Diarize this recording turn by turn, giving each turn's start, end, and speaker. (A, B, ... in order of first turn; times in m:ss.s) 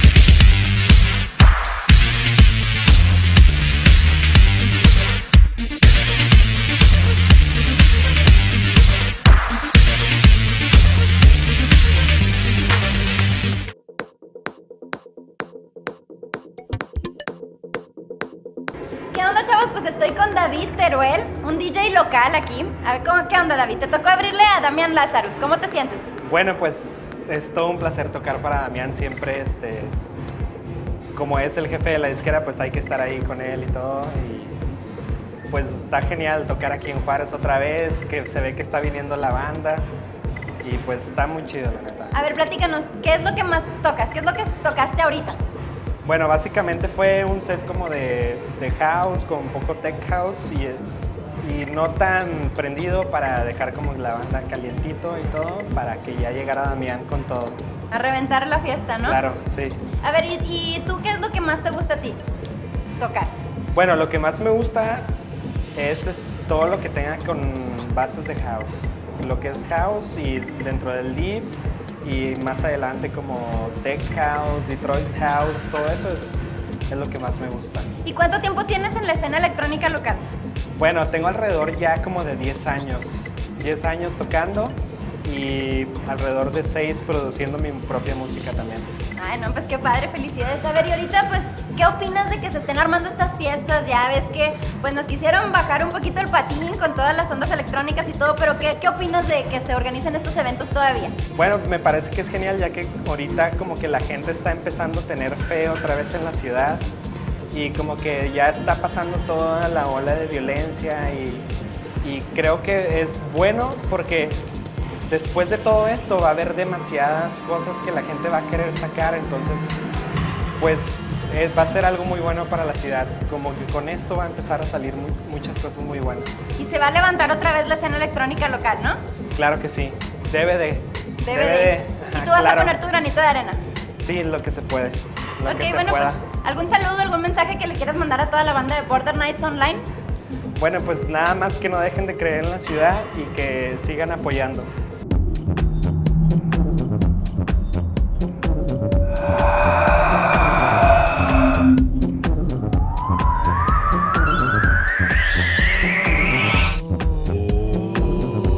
0:19.1-0:26.1 A
0:26.2-0:29.9 B
0:31.1-0:34.6 B
0:35.5-0:39.9 B
0:40.6-0:42.2 B
0:42.1-0:45.4 A
0:46.0-0:50.8 B
0:51.4-0:57.6 B
0:57.9-0:59.2 A
0:59.0-0:59.8 B
1:00.0-1:02.2 A
1:03.0-1:03.3 A
1:03.7-1:05.1 B
1:05.8-1:17.9 B
1:18.0-1:20.3 A
1:20.8-1:28.9 B
1:29.2-1:41.2 A
1:41.3-1:46.9 B
1:47.5-1:51.5 B
1:52.0-1:54.4 B
1:55.1-1:59.8 B
2:00.6-2:06.5 B
2:06.6-2:09.0 A
2:09.3-2:12.8 B
2:11.2-2:13.6 A
2:14.0-2:16.2 B
2:15.4-2:19.8 A
2:20.6-2:24.7 B